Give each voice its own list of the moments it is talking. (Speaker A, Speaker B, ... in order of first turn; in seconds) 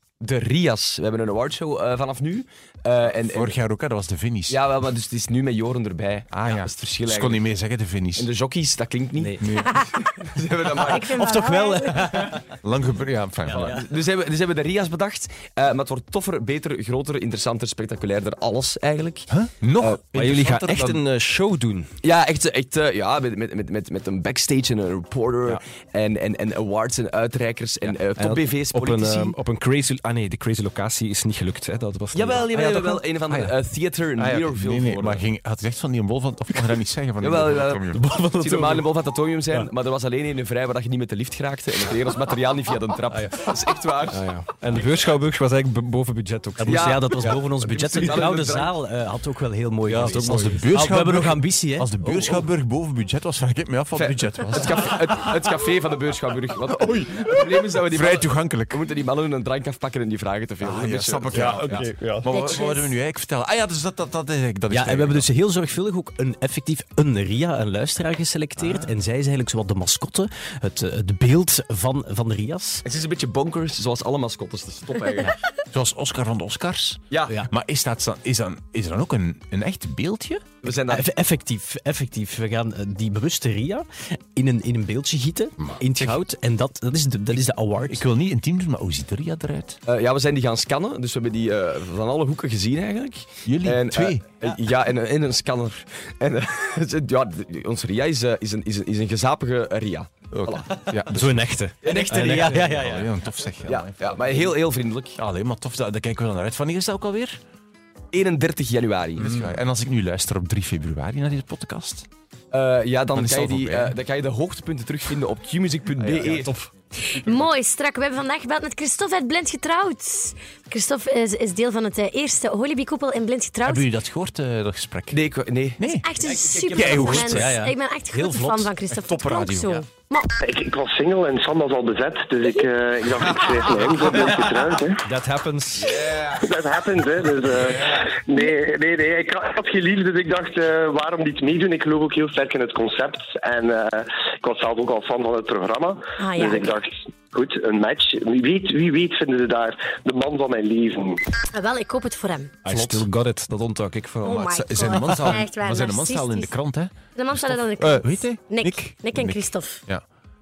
Speaker A: 0.2-3.6, 4.5-7.5, 8.2-11.2, 13.5-20.1, 22.0-29.4, 32.1-35.2, 37.2-37.9, 38.4-44.3, 46.6-49.1, 54.0-61.9, 72.8-75.3, 77.1-77.4, 80.6-81.2, 89.9-100.7, 101.8-102.8, 103.7-105.2, 108.1-109.3, 112.5-116.5, 125.1-125.8
Speaker B: 3.2-4.6, 6.3-8.3, 9.4-9.7, 12.6-13.8, 19.3-21.0, 32.5-33.5, 34.2-38.0, 50.2-54.9, 56.8-58.8, 60.6-65.3, 75.6-80.4, 85.7-86.2, 87.9-89.8, 93.5-94.2, 100.3-104.4, 105.2-107.4, 109.2-112.1, 113.1-114.0, 116.0-116.4, 123.6-125.2, 125.8-126.1, 126.7-127.6, 128.9-129.8, 152.7-153.1, 154.3-160.0
Speaker C: 9.6-9.9, 10.8-12.2, 62.3-63.0, 117.0-123.9, 125.9-130.3, 146.2-146.7, 151.5-152.5, 154.2-156.5, 157.2-159.8
Speaker D: 11.2-12.4, 46.6-52.4, 64.7-72.8, 80.9-88.0, 102.4-103.1, 127.1-128.7
Speaker E: 20.1-21.9, 27.8-32.6, 37.9-38.9, 43.1-43.5, 44.1-48.3, 49.9-50.5, 61.3-62.3, 101.1-102.4, 116.4-116.7, 135.1-136.0, 152.7-155.3
Speaker F: 130.4-135.0, 135.8-151.2